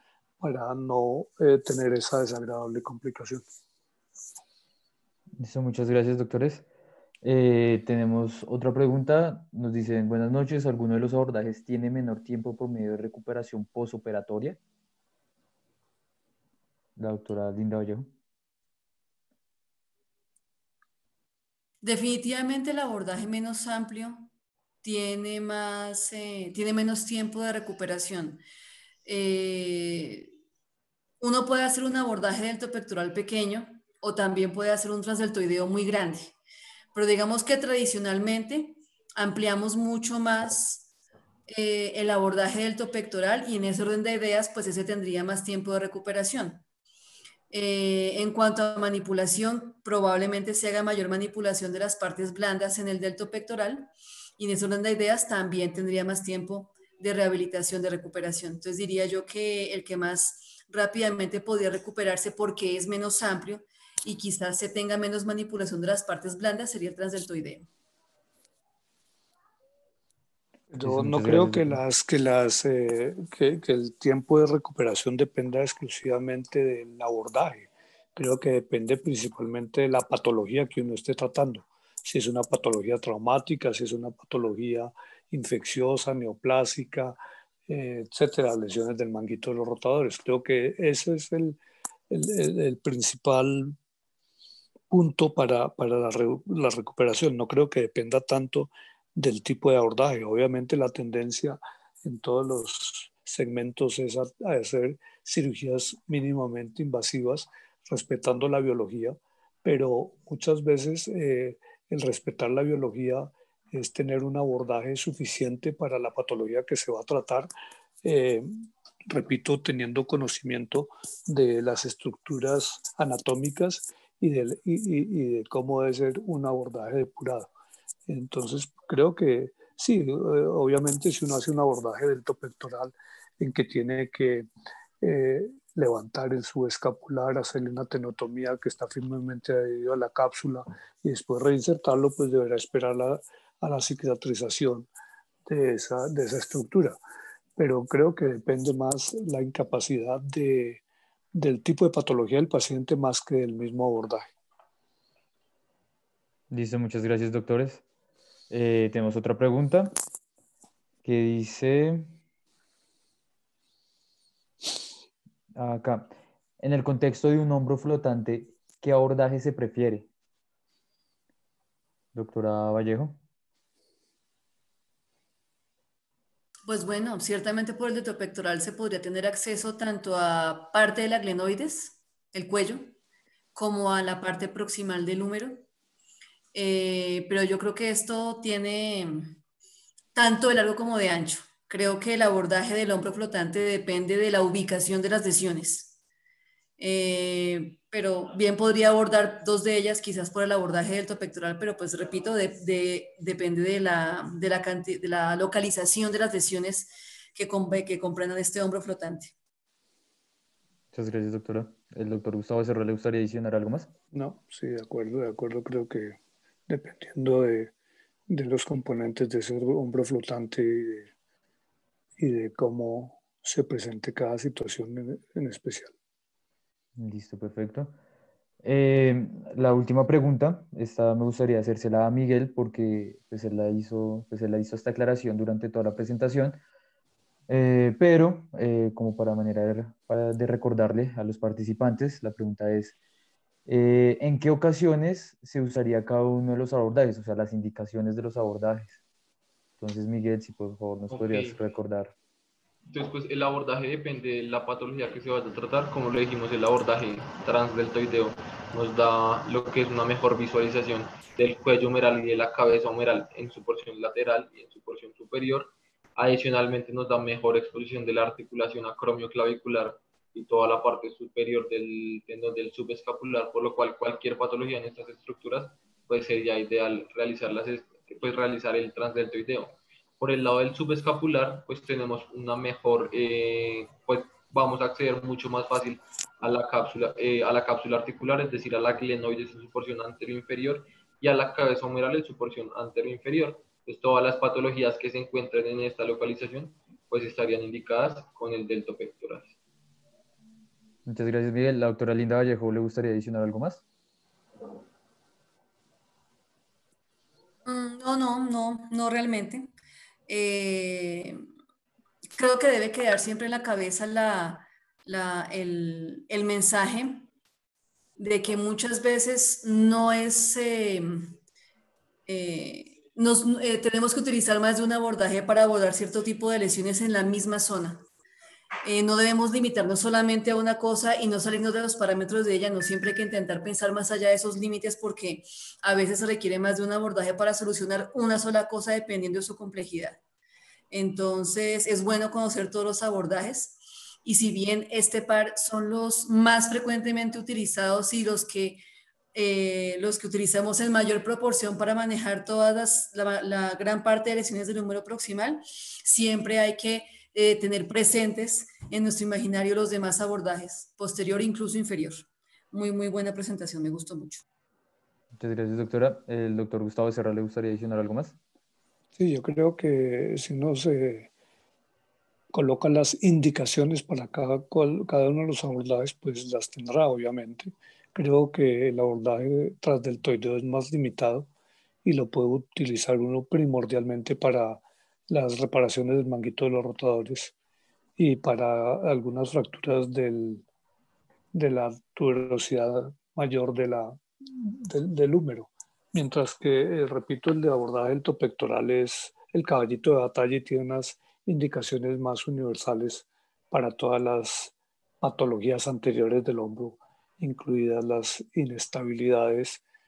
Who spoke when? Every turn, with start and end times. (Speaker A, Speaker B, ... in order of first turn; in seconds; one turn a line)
Speaker A: 0.4-3.4
Speaker B: 5.4-6.7
Speaker B: 7.2-14.6
Speaker B: 17.0-18.1
Speaker C: 21.8-24.3
Speaker C: 24.8-28.4
Speaker C: 29.1-30.3
Speaker C: 31.2-36.3
Speaker C: 37.0-40.9
Speaker C: 41.5-46.6
Speaker C: 47.5-67.7
Speaker A: 70.7-87.2
Speaker B: 70.8-71.8
Speaker A: 87.7-91.6
Speaker A: 92.1-93.8
Speaker A: 94.9-117.5
Speaker A: 118.0-118.5
Speaker A: 119.1-127.5
Speaker A: 128.1-134.5
Speaker A: 135.0-144.9
Speaker A: 145.5-147.0
Speaker A: 147.6-150.8
Speaker A: 151.3-154.3
Speaker B: 156.5-157.8
Speaker B: 158.5-159.9
Speaker B: 161.0-162.1
Speaker B: 165.6-170.1
Speaker B: 172.1-173.2
Speaker C: 176.7-182.9
Speaker C: 183.6-185.6
Speaker C: 186.5-189.3
Speaker C: 190.2-195.9
Speaker C: 196.8-209.3
Speaker B: 210.9-213.9
Speaker A: 214.1-217.7
Speaker A: 218.3-221.1
Speaker A: 222.2-225.9
Speaker B: 227.0-227.9
Speaker B: 228.6-236.6
Speaker B: 237.5-242.9
Speaker B: 243.7-249.0
Speaker B: 249.8-252.1
Speaker D: 251.1-251.6
Speaker D: 252.9-299.6
Speaker B: 301.1-303.8
Speaker C: 307.6-309.7
Speaker C: 310.3-311.4
Speaker C: 312.4-317.3
Speaker C: 318.2-321.3
Speaker C: 322.3-328.0
Speaker C: 328.9-340.2
Speaker C: 340.9-348.8
Speaker C: 349.3-364.4
Speaker B: 365.4-368.4
Speaker A: 369.2-371.3
Speaker A: 372.5-381.5
Speaker A: 382.1-387.5
Speaker A: 388.2-390.6
Speaker A: 391.5-409.8